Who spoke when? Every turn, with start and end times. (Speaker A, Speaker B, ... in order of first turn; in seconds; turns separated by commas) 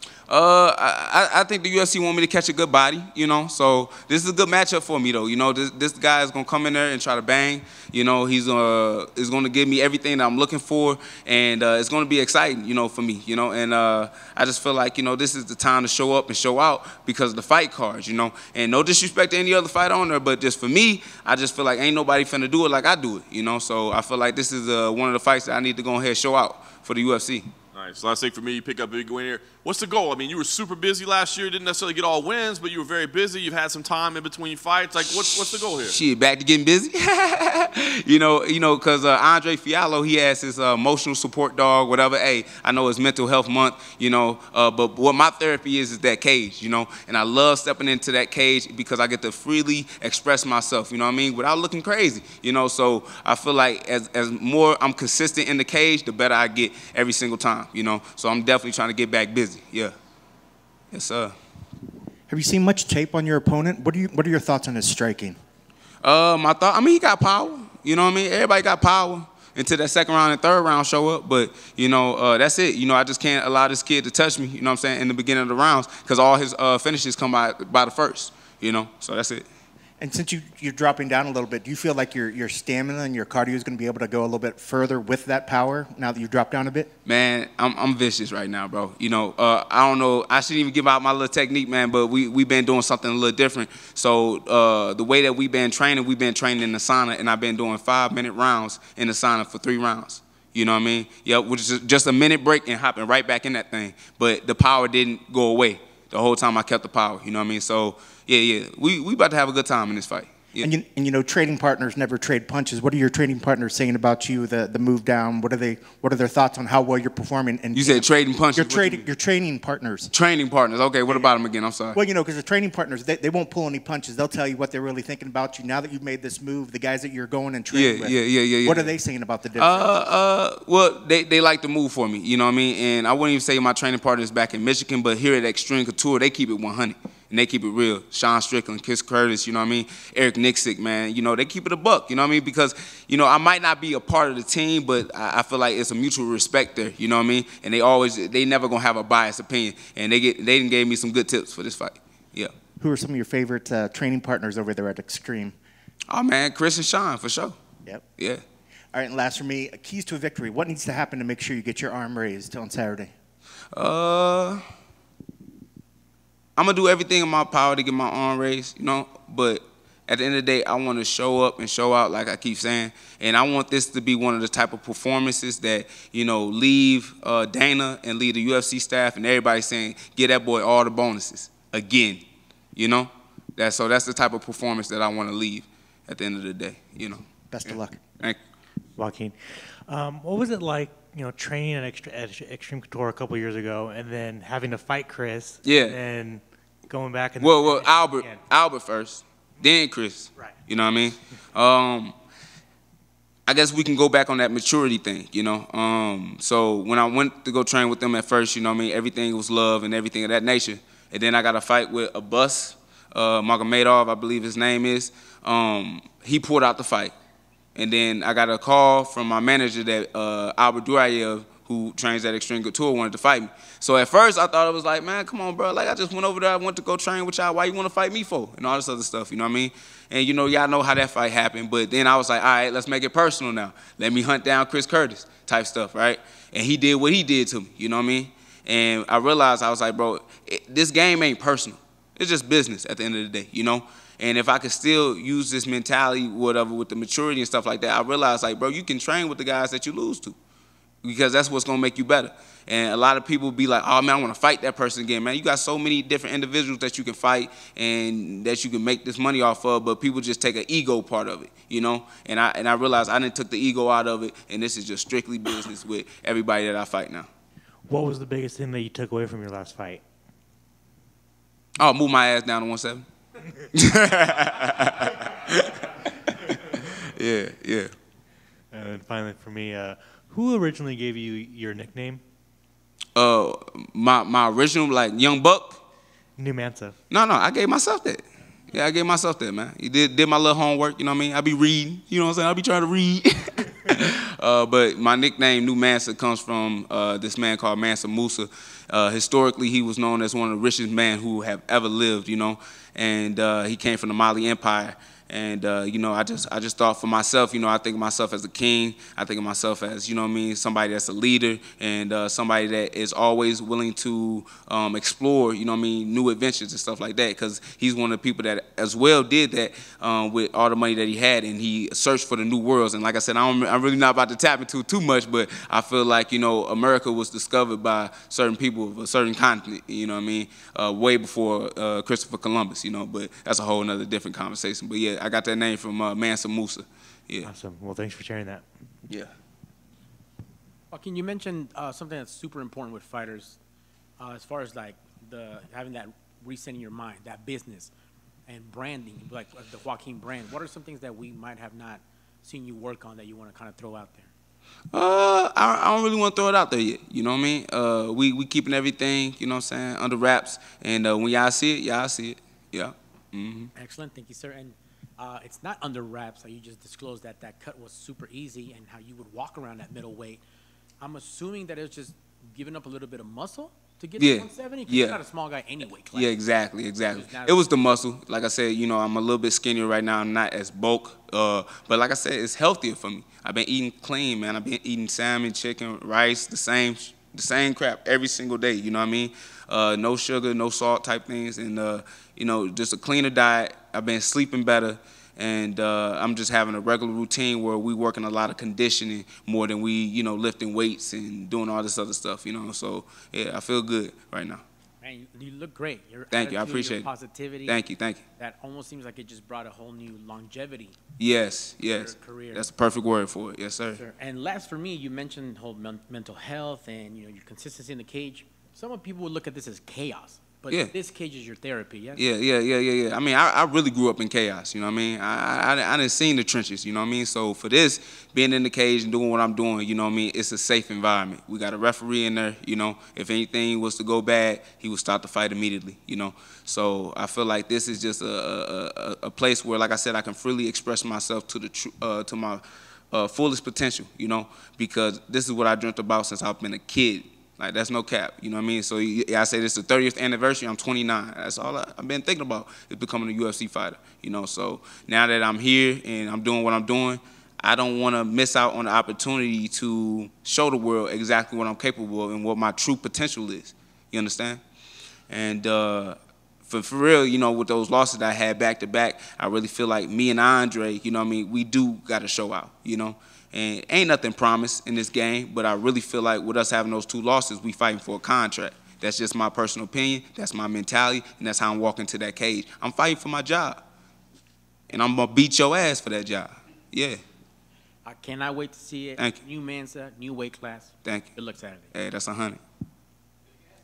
Speaker A: 0.3-27.5, Speaker B: 27.7-36.0, Speaker A: 35.1-59.9, Speaker A: 60.9-61.3, Speaker C: 62.3-65.4, Speaker A: 66.0-79.5, Speaker C: 80.0-86.9, Speaker A: 87.0-110.7, Speaker C: 110.6-120.1, Speaker A: 117.7-119.1, Speaker A: 120.1-122.0, Speaker C: 121.9-130.0, Speaker A: 127.7-128.9, Speaker A: 129.6-152.5, Speaker C: 152.8-155.6, Speaker A: 156.1-157.6, Speaker A: 158.2-158.4, Speaker C: 158.9-163.1, Speaker A: 163.7-164.6, Speaker A: 166.6-182.2, Speaker A: 182.8-188.4, Speaker C: 187.5-188.0, Speaker D: 189.0-189.4, Speaker D: 189.9-198.4, Speaker A: 195.6-196.0, Speaker A: 197.4-202.1, Speaker A: 203.5-217.1, Speaker A: 217.8-250.4, Speaker A: 251.0-267.3, Speaker D: 267.9-270.0, Speaker A: 271.8-273.0, Speaker A: 273.7-277.9, Speaker D: 278.7-282.2, Speaker A: 283.2-285.8, Speaker D: 286.4-287.0, Speaker A: 287.1-337.5, Speaker D: 337.4-338.7, Speaker E: 340.9-343.6, Speaker E: 344.2-347.9, Speaker E: 348.5-354.3, Speaker A: 354.9-363.7, Speaker E: 363.8-370.4, Speaker E: 371.0-376.4, Speaker A: 374.2-375.2, Speaker A: 376.1-404.6, Speaker E: 377.1-377.7, Speaker E: 405.0-407.8, Speaker A: 406.3-407.1, Speaker A: 407.7-408.2, Speaker E: 408.4-411.0, Speaker A: 411.2-414.0, Speaker E: 411.9-412.7, Speaker E: 414.0-422.2, Speaker A: 422.2-464.6, Speaker A: 465.3-483.8, Speaker A: 484.9-487.2, Speaker E: 488.1-491.9, Speaker A: 491.9-492.6